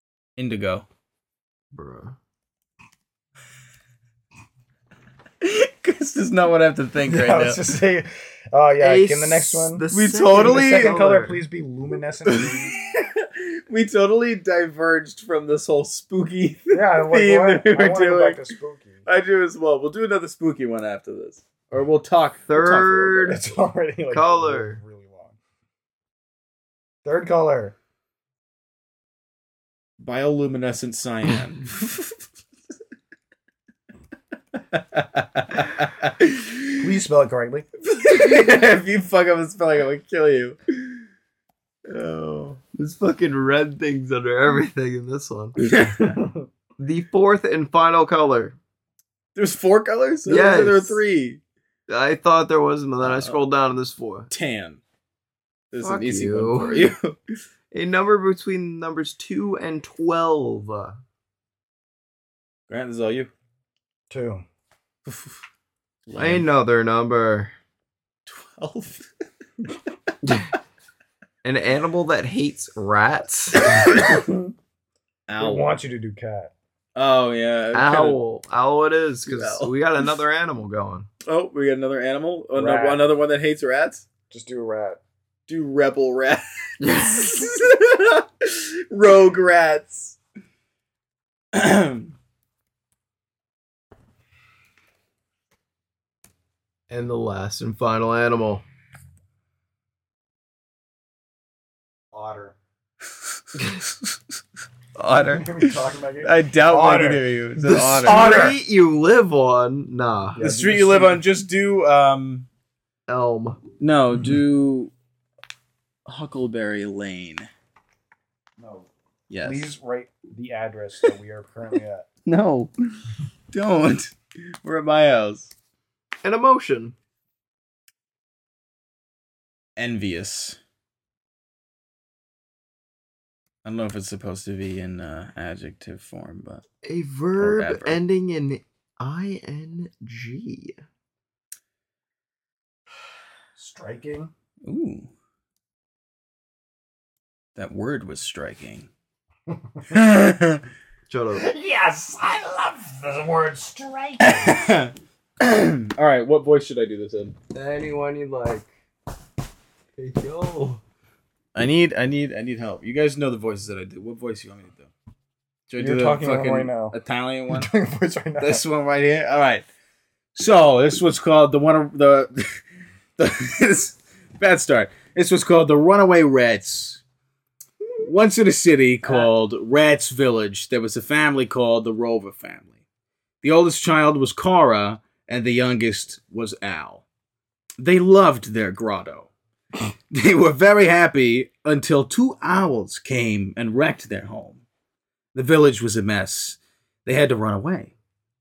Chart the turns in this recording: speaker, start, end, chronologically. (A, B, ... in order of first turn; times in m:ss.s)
0:00.4-0:00.8 A
0:01.7-0:02.2 B
0:05.4-0:07.6 A
0:07.0-0:12.7 C
0:08.8-0:11.4 B
0:09.9-0:11.0 A
0:12.2-0:18.5 A
0:16.7-0:19.0 C
0:19.0-0:23.3 A
0:22.5-0:23.4 B
0:23.2-0:25.4 C
0:24.1-0:24.8 B
0:27.0-0:27.7 C
0:30.0-0:32.1 A
0:34.5-0:36.8 A
0:36.8-0:37.6 C
0:37.8-0:40.6 A
0:41.9-0:42.6 A
0:42.7-0:45.6 B
0:45.6-0:46.2 A
0:46.0-0:46.5 C
0:46.8-0:48.6 B
0:49.3-0:51.4 A
0:50.2-0:51.0 B
0:51.9-0:54.3 B
0:53.0-0:53.4 A
0:54.3-0:54.8 A
0:55.7-0:57.2 A
0:55.8-0:56.9 B
0:57.7-1:01.0 B
1:02.7-1:03.3 A
1:04.1-1:04.4 C
1:05.0-1:05.4 A
1:06.1-1:06.4 A
1:06.2-1:07.5 B
1:08.2-1:09.1 A
1:11.4-1:13.8 B
1:13.6-1:14.2 A
1:13.8-1:14.5 C
1:15.3-1:15.7 A
1:15.4-1:16.5 C
1:16.9-1:18.2 A
1:17.7-1:21.1 B
1:19.3-1:19.7 A
1:21.2-1:24.0 A
1:22.5-1:23.1 C
1:24.3-1:25.0 C
1:25.5-1:30.2 A
1:26.8-1:27.5 B
1:31.5-1:32.1 A
1:36.9-1:38.6 B
1:42.1-1:42.6 C
1:43.9-1:44.2 A
1:45.0-1:48.3 A
1:45.3-1:47.2 C
1:47.6-1:50.4 B
1:48.0-1:48.6 C
1:50.3-1:51.2 C
1:50.4-1:52.5 A
1:53.1-1:53.6 B
1:53.8-1:54.9 A
1:56.0-1:57.5 A
1:58.6-1:58.9 C
1:59.3-1:59.7 A
1:59.4-2:02.1 C
2:02.2-2:02.7 A
2:03.5-2:05.5 A
2:06.2-2:06.9 B
2:09.8-2:10.6 A
2:13.6-2:16.6 A
2:16.8-2:20.8 B
2:17.4-2:18.0 A
2:23.6-2:24.3 C
2:24.6-2:25.1 A
2:27.6-2:28.9 A
2:29.5-2:29.9 C
2:29.9-2:30.6 A
2:31.1-2:31.4 B
2:31.3-2:34.6 C
2:34.2-2:37.4 A
2:37.5-2:38.7 B
2:40.0-2:40.8 B
2:41.5-2:44.9 A
2:45.7-2:47.7 A
2:45.8-2:46.9 C
2:47.5-2:48.6 C
2:48.4-2:49.6 A
2:50.3-2:52.6 A
2:53.2-2:57.0 A
2:58.0-3:02.7 A
3:03.4-3:07.0 A
3:07.8-3:09.3 A
3:10.1-3:14.6 A
3:15.3-3:17.9 A